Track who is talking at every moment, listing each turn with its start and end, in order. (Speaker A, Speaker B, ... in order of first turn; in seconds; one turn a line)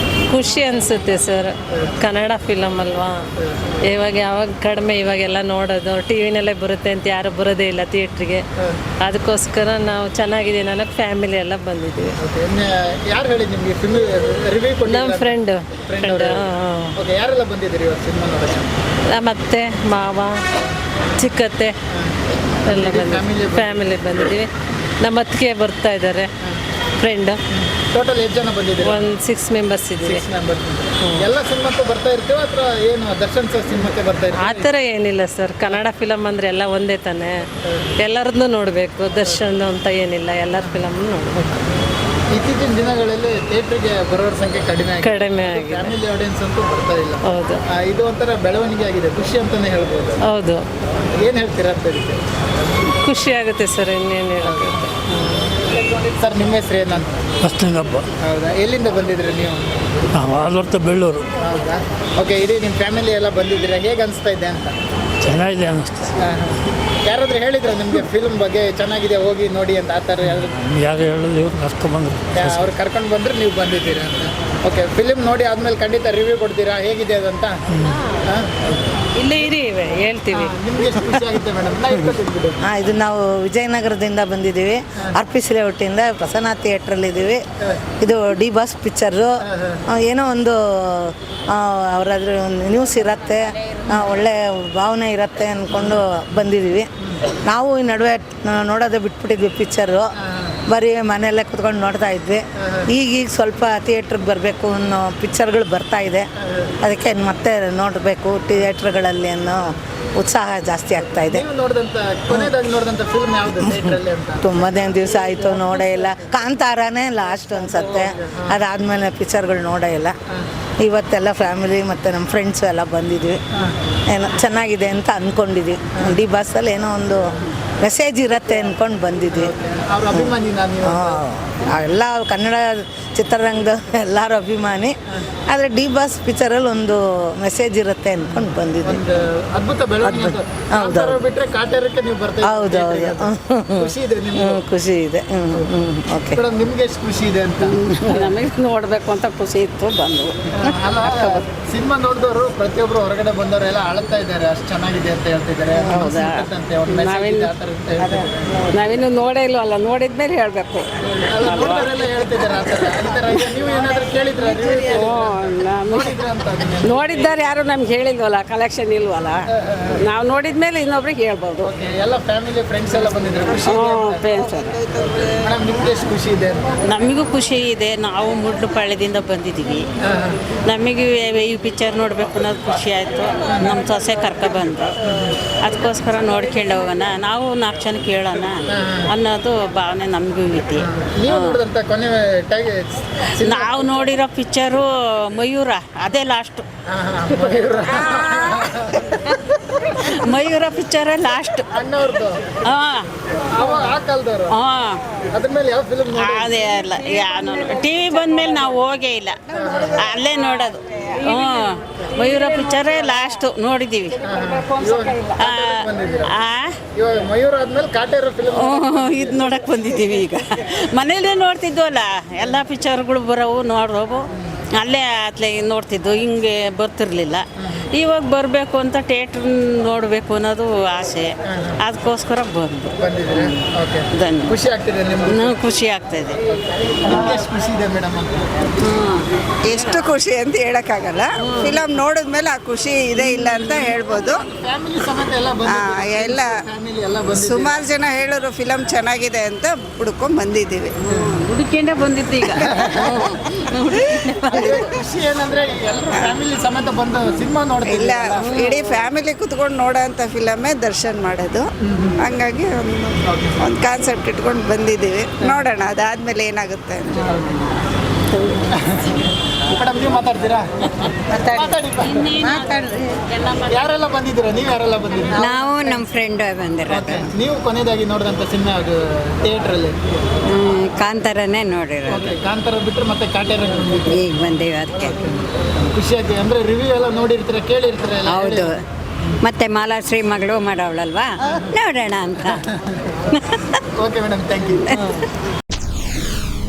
Speaker A: 0.3-3.3
Speaker B: 1.7-2.0
Speaker B: 3.4-3.8
Speaker A: 3.9-8.4
Speaker A: 9.0-12.2
Speaker B: 12.2-16.4
Speaker A: 14.8-16.9
Speaker B: 16.9-18.7
Speaker A: 19.1-20.4
Speaker A: 21.2-21.7
Speaker B: 21.9-23.8
Speaker A: 22.7-24.5
Speaker A: 25.0-26.3
Speaker A: 27.0-27.4
Speaker B: 27.5-29.1
Speaker A: 28.8-30.2
Speaker B: 29.9-34.7
Speaker A: 34.3-37.4
Speaker B: 37.6-37.9
Speaker A: 38.0-41.6
Speaker B: 40.6-40.9
Speaker B: 42.3-50.2
Speaker A: 45.0-45.9
Speaker A: 47.3-47.6
Speaker A: 50.3-50.6
Speaker B: 51.2-52.2
Speaker A: 53.0-55.5
Speaker B: 54.4-54.8
Speaker B: 55.7-57.2
Speaker C: 57.4-58.0
Speaker B: 58.2-60.0
Speaker C: 60.1-61.2
Speaker B: 61.4-64.8
Speaker C: 65.2-66.1
Speaker B: 66.2-70.6
Speaker C: 70.3-72.6
Speaker B: 72.3-77.6
Speaker B: 78.3-78.5
Speaker A: 79.2-80.5
Speaker B: 80.3-82.6
Speaker D: 82.6-87.4
Speaker D: 88.0-89.3
Speaker B: 89.5-89.8
Speaker D: 89.9-96.9
Speaker B: 95.7-96.0
Speaker D: 97.4-100.1
Speaker B: 100.2-100.6
Speaker D: 100.7-106.3
Speaker B: 102.6-102.9
Speaker B: 106.4-106.7
Speaker D: 106.8-111.4
Speaker B: 111.0-114.6
Speaker D: 113.6-120.1
Speaker B: 117.8-118.6
Speaker D: 120.8-123.4
Speaker D: 124.1-129.5
Speaker B: 129.3-131.2
Speaker D: 130.1-134.9
Speaker D: 135.5-139.0
Speaker B: 138.3-144.6
Speaker D: 140.0-141.2
Speaker D: 142.4-146.4
Speaker B: 146.3-148.3
Speaker E: 147.8-150.3
Speaker B: 150.5-158.7
Speaker E: 156.0-156.3
Speaker E: 157.0-157.4
Speaker E: 158.8-160.9
Speaker B: 161.0-167.3
Speaker E: 161.5-161.8
Speaker E: 165.0-166.0
Speaker E: 166.9-169.4
Speaker B: 169.5-170.0
Speaker E: 170.1-171.7
Speaker B: 171.6-174.3
Speaker E: 173.8-174.7
Speaker F: 174.7-175.2
Speaker B: 175.2-176.7
Speaker G: 176.9-179.8
Speaker B: 180.0-180.4
Speaker G: 180.7-184.9
Speaker G: 185.6-191.6
Speaker B: 188.7-189.1
Speaker B: 190.8-193.9
Speaker G: 193.4-196.6
Speaker B: 196.9-199.1
Speaker F: 197.9-199.0
Speaker G: 199.9-201.7
Speaker B: 201.7-202.5
Speaker G: 202.6-203.1
Speaker B: 203.4-204.5
Speaker G: 204.5-205.0
Speaker B: 205.3-206.6
Speaker G: 206.2-214.3
Speaker B: 209.5-210.0
Speaker B: 214.2-216.3
Speaker G: 215.3-216.7
Speaker B: 216.9-219.6
Speaker G: 218.5-233.6
Speaker B: 231.5-231.8
Speaker B: 233.0-235.6
Speaker G: 234.1-234.6
Speaker G: 235.3-236.4
Speaker B: 236.5-238.7
Speaker G: 238.8-239.2
Speaker F: 239.6-244.4
Speaker G: 241.4-241.7
Speaker B: 243.2-247.8
Speaker F: 245.7-246.5
Speaker F: 247.3-251.0
Speaker G: 251.1-254.6
Speaker B: 251.1-251.4
Speaker F: 252.4-252.9
Speaker B: 252.7-253.1
Speaker F: 253.9-254.9
Speaker B: 254.5-258.5
Speaker F: 257.8-267.4
Speaker G: 258.4-259.0
Speaker B: 261.8-262.2
Speaker B: 263.2-263.6
Speaker B: 267.1-267.6
Speaker B: 268.7-272.6
Speaker G: 272.0-273.7
Speaker B: 273.7-275.5
Speaker H: 275.3-277.3
Speaker B: 276.9-280.0
Speaker H: 280.5-282.3
Speaker B: 282.1-284.2
Speaker H: 284.1-285.3
Speaker B: 285.9-288.7
Speaker H: 288.2-288.7
Speaker H: 289.4-292.6
Speaker B: 294.0-294.9